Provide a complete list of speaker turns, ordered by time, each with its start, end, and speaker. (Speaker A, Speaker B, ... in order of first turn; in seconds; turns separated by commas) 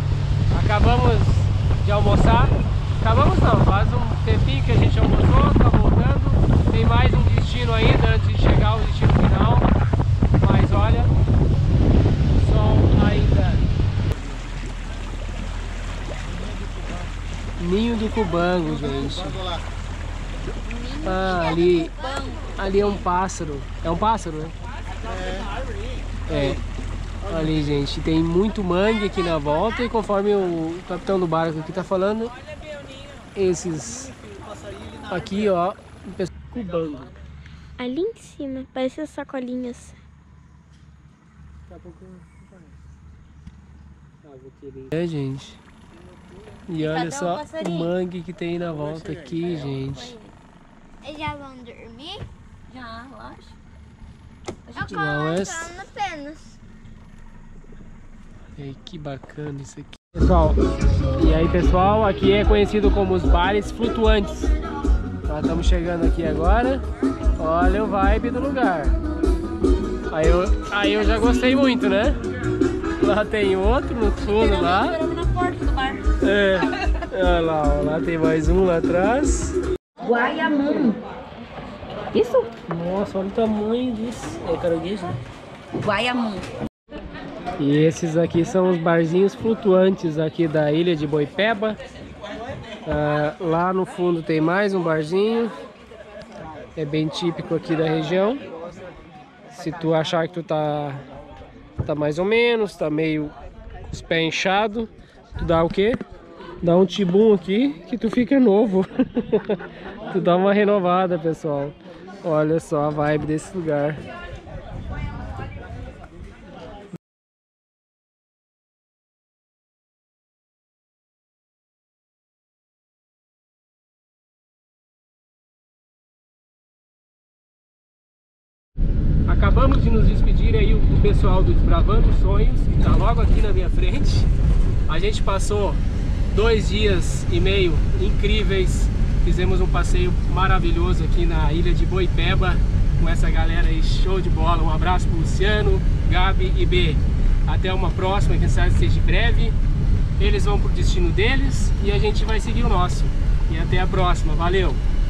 Speaker A: 0.5-9.7, Speaker A: 10.4-11.1, Speaker A: 12.3-13.7, Speaker A: 17.6-19.5, Speaker B: 20.7-23.0, Speaker A: 21.0-22.0, Speaker A: 22.6-24.6, Speaker A: 26.3-26.6, Speaker A: 27.2-32.3, Speaker A: 33.4-34.1, Speaker A: 35.0-37.1, Speaker C: 37.8-40.0, Speaker A: 41.7-42.5, Speaker A: 44.2-45.6, Speaker A: 46.7-50.2, Speaker B: 46.8-47.9, Speaker B: 49.8-50.3, Speaker C: 51.0-52.3, Speaker B: 52.7-53.5, Speaker B: 54.7-55.0, Speaker C: 54.8-56.6, Speaker A: 54.9-55.7, Speaker A: 58.6-60.6, Speaker A: 61.1-64.5, Speaker A: 65.3-66.8, Speaker A: 67.4-69.0, Speaker A: 70.1-72.2, Speaker A: 73.0-75.0, Speaker B: 74.2-76.1, Speaker A: 76.2-79.6, Speaker B: 80.0-81.0, Speaker B: 82.1-82.5, Speaker A: 82.7-85.2, Speaker B: 85.8-86.5, Speaker A: 87.6-91.8, Speaker A: 92.9-95.5, Speaker A: 96.8-98.5, Speaker A: 99.5-101.0, Speaker A: 101.8-103.3, Speaker A: 103.9-106.0, Speaker A: 106.6-114.0, Speaker A: 129.3-134.3, Speaker A: 134.9-149.6, Speaker A: 150.2-154.8